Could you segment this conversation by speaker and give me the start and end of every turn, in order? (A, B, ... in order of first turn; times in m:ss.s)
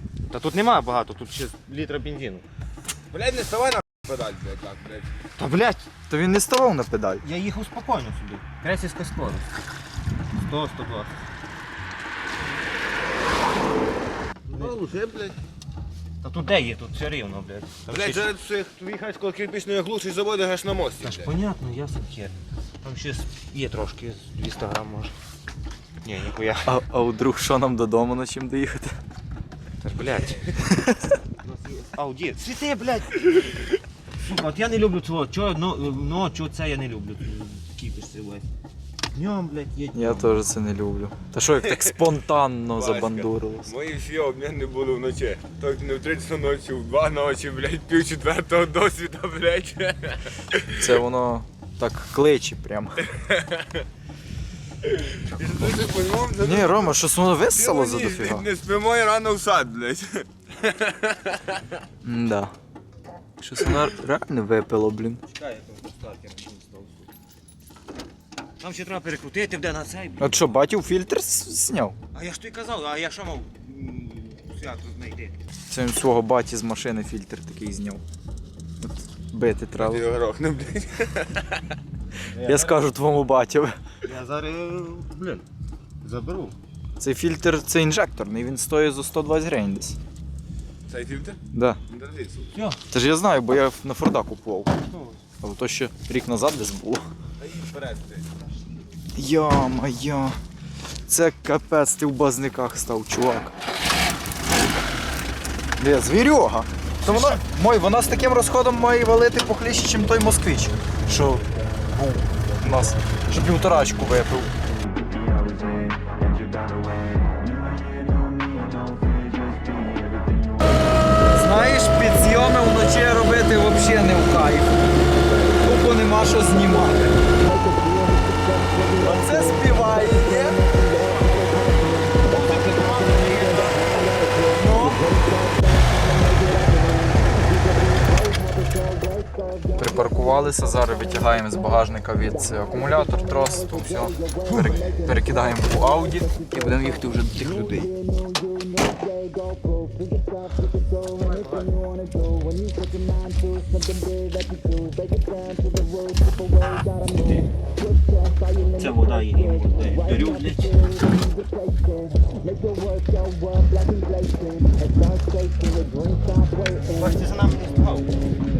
0:00.3-0:02.4 A
0:03.1-0:05.1 B
0:05.4-0:05.9 A
0:06.1-0:07.2 C
0:07.2-0:09.5 A
0:10.3-0:11.1 A
0:14.5-0:14.8 A
0:14.6-0:15.4 B
0:16.2-0:18.3 A
0:17.9-0:21.3 B
0:21.0-0:25.1 A
0:26.0-0:26.8 A
0:26.6-0:29.0 C
0:29.8-0:30.6 A
0:30.7-0:31.1 C
0:31.4-0:38.4 A
0:39.1-0:40.4 A
0:39.9-0:43.7 C
0:41.7-0:42.0 B
0:42.8-0:50.9 B
0:50.8-0:53.0 C
0:53.1-0:53.6 B
0:54.8-0:57.0 B
0:56.4-0:58.4 C
0:57.5-1:01.4 B
1:02.0-1:02.5 C
1:03.4-1:05.2 C
1:05.3-1:07.1 A
1:08.6-1:10.5 A
1:10.2-1:12.0 C
1:12.1-1:15.4 A
1:15.7-1:18.0 C
1:18.8-1:20.1 C
1:19.8-1:21.6 B
1:22.3-1:22.9 A
1:22.4-1:23.8 C
1:24.0-1:25.4 A
1:26.0-1:26.6 A
1:27.0-1:30.0 C
1:30.9-1:32.5 B
1:31.5-1:31.8 C
1:32.9-1:34.7 C
1:34.9-1:35.2 A
1:35.4-1:37.1 C
1:37.4-1:38.3 B
1:39.1-1:40.4 C
1:41.1-1:43.5 C
1:45.8-1:54.5 C
1:47.0-1:47.4 A
2:01.3-2:04.8 C
2:05.6-2:07.1 C
2:09.0-2:10.6 C
2:12.2-2:14.1 A
2:14.6-2:15.1 C
2:19.7-2:28.0 C
2:31.2-2:31.8 A
2:36.6-2:37.5 A
2:38.7-2:40.9 A
2:46.9-2:48.1 A